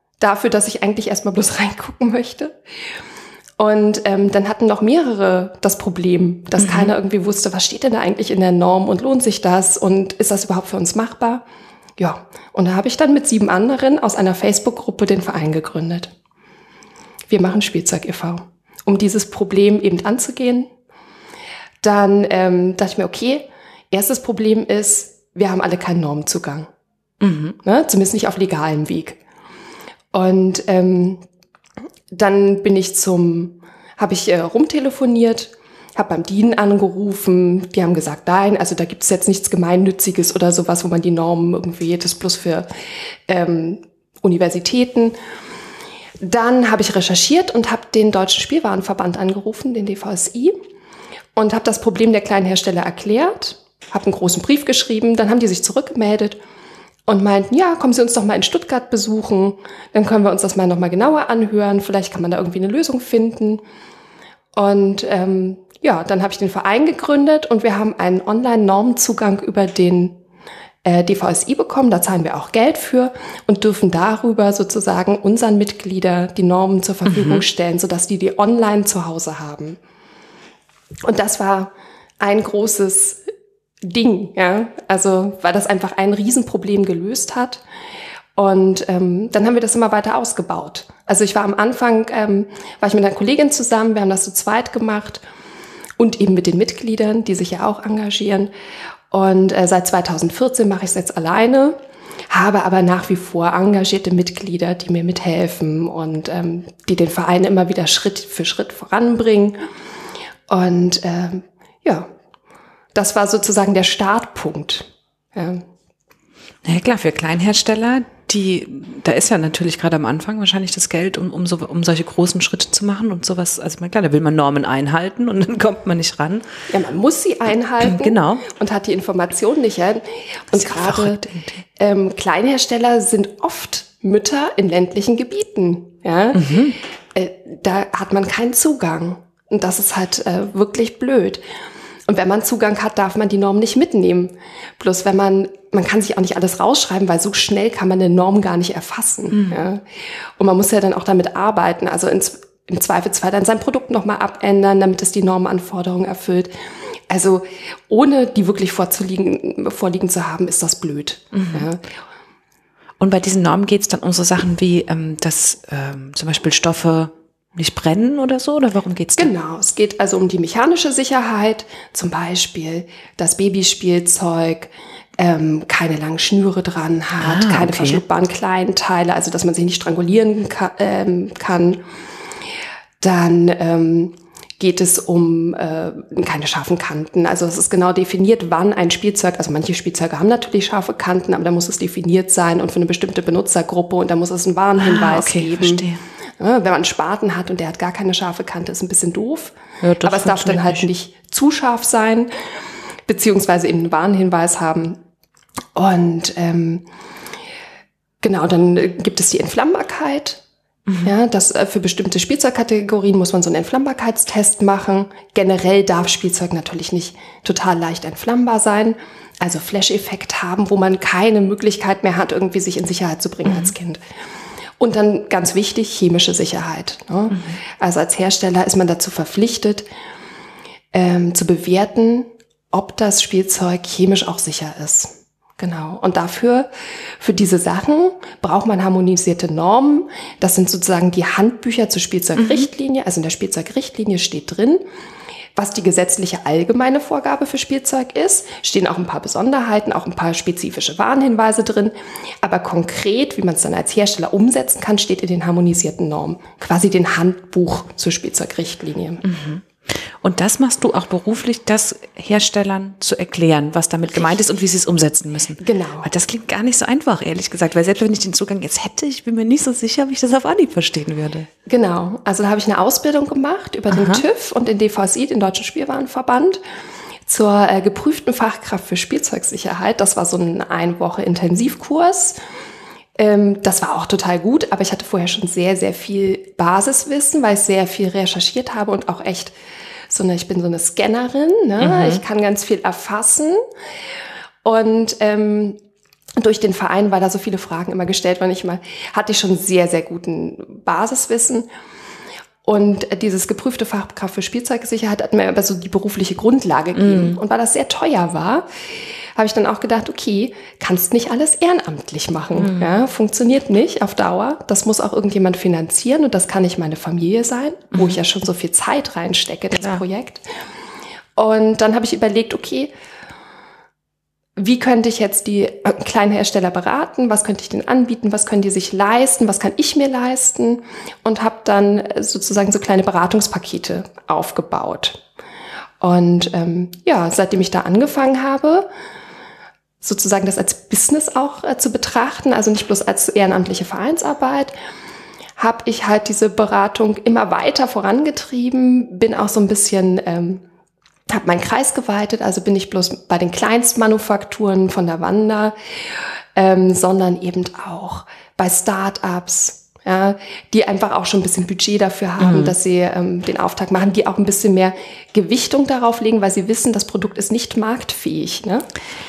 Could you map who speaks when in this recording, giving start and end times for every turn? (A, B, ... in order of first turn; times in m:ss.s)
0:00.2-0:02.6 A
0:03.6-0:11.4 A
0:06.6-0:06.9 B
0:12.0-0:16.1 A
0:17.3-0:20.7 A
0:21.8-0:26.7 A
0:27.2-0:27.6 B
0:27.6-0:29.2 A
0:30.1-0:31.2 A
0:32.1-0:42.7 A
0:43.3-0:45.2 A
0:46.2-0:50.6 A
0:51.4-0:56.4 A
0:57.1-1:03.6 A
1:04.5-1:10.2 A
1:10.8-1:19.8 A
1:17.1-1:17.4 B
1:21.0-1:23.2 A
1:23.8-1:27.6 A
1:28.4-1:35.2 A
1:36.0-1:38.5 A
1:39.1-1:41.8 A
1:42.3-1:49.6 A
1:50.5-1:52.1 A
1:52.9-1:55.6 A
1:56.6-2:06.4 B
2:06.7-2:11.2 A
2:07.8-2:08.4 B
2:10.5-2:11.6 B
2:11.8-2:16.6 A
2:16.3-2:16.8 B
2:17.1-2:21.4 A
2:22.1-2:29.8 A
2:29.3-2:29.6 B
2:30.4-2:36.5 A
2:37.1-2:41.8 A
2:41.3-2:41.7 B
2:43.0-2:49.3 B
2:49.2-3:01.8 A
2:57.2-2:58.0 B
3:03.0-3:15.8 A
3:14.8-3:16.0 B
3:16.4-3:22.3 A
3:19.8-3:20.9 B
3:23.1-3:25.0 A
3:25.8-3:26.8 A
3:28.2-3:30.4 A
3:30.9-3:31.1 B
3:31.0-3:44.0 A
3:43.4-3:43.7 B
3:44.8-3:49.9 A
3:50.9-3:56.7 A
3:57.2-4:04.8 A
4:02.4-4:02.7 B
4:05.6-4:19.2 A
4:19.2-4:31.5 B
4:24.1-4:24.4 A
4:25.6-4:26.1 A
4:31.6-4:36.6 A
4:33.9-4:34.2 B
4:37.3-4:42.4 A
4:43.2-4:49.5 A
4:50.1-4:53.6 A
4:51.8-4:52.2 B
4:54.6-4:55.8 A
4:56.4-5:01.7 A
5:02.6-5:08.7 A
5:06.9-5:07.4 B
5:09.4-5:20.4 A
5:12.6-5:13.0 B
5:21.4-5:22.9 A
5:24.6-5:35.2 A
5:36.0-5:38.9 A
5:40.0-5:44.7 A
5:45.6-5:50.6 A
5:51.3-5:55.7 A
5:56.6-6:08.9 A
6:02.4-6:02.7 B